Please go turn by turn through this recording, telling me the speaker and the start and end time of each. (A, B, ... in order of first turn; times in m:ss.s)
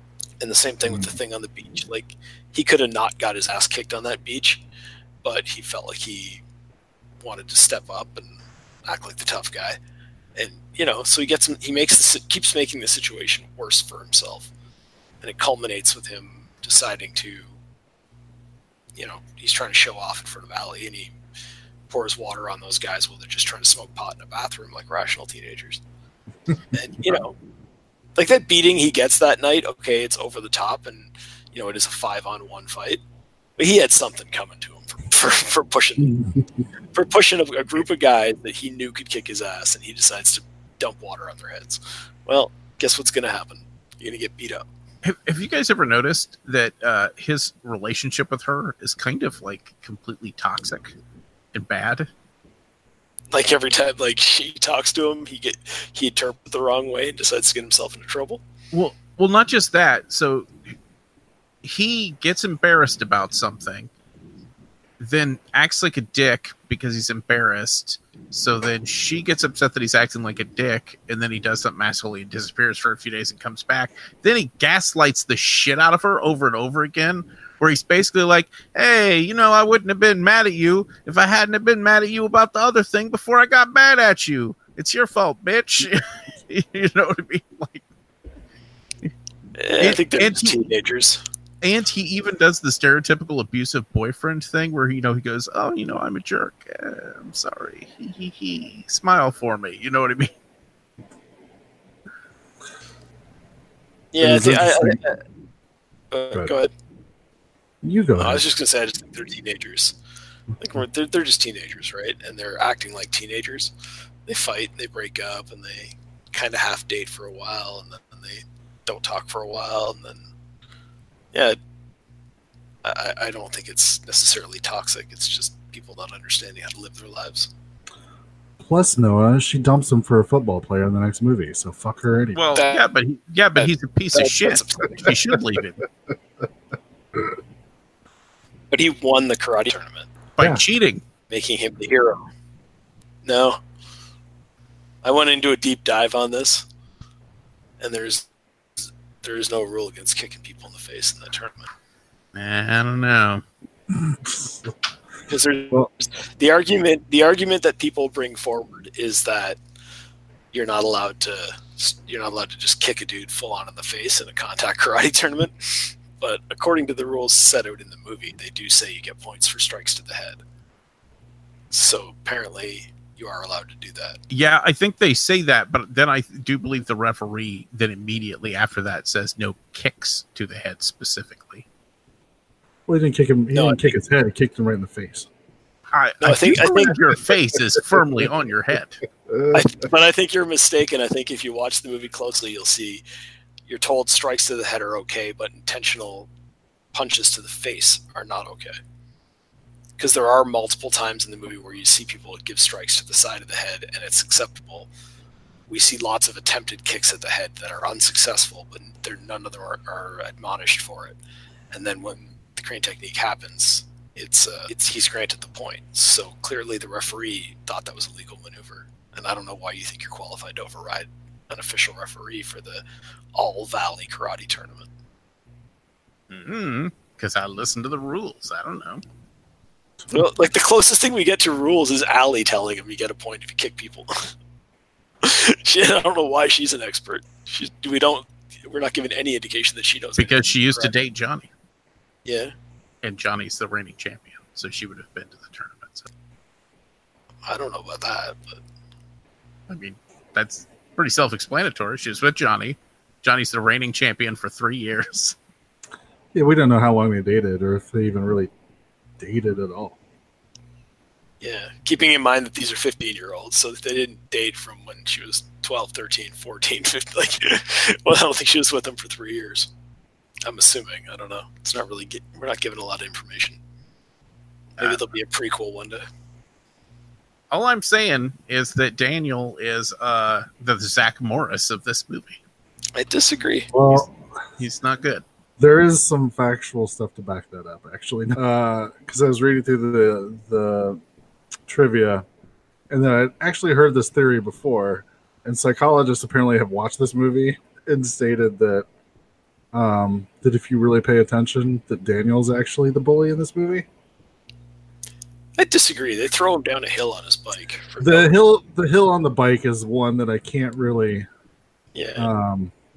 0:00.4-0:04.6 A
0:00.8-0:01.1 B
0:05.2-0:06.4 A
0:07.2-0:09.8 A
0:10.4-0:14.5 A
0:15.2-0:17.5 A
0:19.0-0:21.2 A
0:21.9-0:25.8 A
0:26.5-0:27.2 B
0:26.7-0:27.4 A
0:28.2-0:33.0 A
0:33.6-0:36.2 A
0:36.0-0:36.6 B
0:36.9-0:44.6 A
0:45.0-0:50.9 C
0:51.5-0:52.1 C
0:53.3-0:58.4 A
0:58.7-1:00.5 C
1:01.6-1:03.9 C
1:05.0-1:27.8 C
1:29.6-1:31.2 A
1:29.8-1:30.6 C
1:31.6-1:40.3 C
1:44.1-1:45.2 A
1:44.2-1:45.0 B
1:46.1-1:46.7 A
1:47.8-1:48.4 B
1:48.2-1:50.0 A
1:50.6-1:53.7 A
1:54.3-2:00.3 A
2:02.8-2:07.5 A
2:08.6-2:12.4 B
2:12.3-2:15.8 C
2:12.5-2:12.8 A
2:14.1-2:15.1 A
2:18.7-2:20.1 A
2:20.4-2:21.0 C
2:21.3-2:22.2 A
2:23.2-2:23.6 A
2:25.0-2:26.6 A
2:27.8-2:28.3 A
2:28.8-2:31.7 A
2:32.3-2:33.4 C
2:33.9-2:34.7 B
2:35.3-2:39.6 A
2:40.5-2:50.4 A
2:51.7-2:54.2 A
2:54.3-3:01.6 C
3:02.9-3:05.3 B
3:03.5-3:03.9 A
3:05.9-3:09.0 C
3:06.2-3:07.0 A
3:09.3-3:09.6 B
3:09.5-3:13.0 A
3:13.7-3:16.3 A
3:16.9-3:18.8 A
3:20.0-3:24.9 A
3:25.7-3:31.2 A
3:31.7-3:42.8 A
3:43.3-3:44.9 A
3:46.3-3:49.0 C
3:50.1-3:54.3 A
3:55.2-4:00.9 A
4:00.2-4:01.5 C
4:02.2-4:02.5 A
4:03.0-4:06.1 C
4:07.4-4:08.6 A
4:09.7-4:15.4 C
4:16.3-4:18.5 B
4:19.2-4:20.0 B
4:21.4-4:29.7 A
4:30.4-4:33.6 A
4:34.8-4:35.0 C
4:34.8-4:36.0 A
4:37.5-4:42.4 C
4:42.9-4:43.7 A
4:43.7-4:44.1 B
4:44.6-4:45.2 C
4:45.6-4:51.0 B
4:51.7-4:52.2 B
4:52.9-4:58.8 B
4:59.7-5:03.9 B
5:05.6-5:08.3 A
5:08.0-5:11.3 B
5:11.9-5:12.3 A
5:12.2-5:12.7 B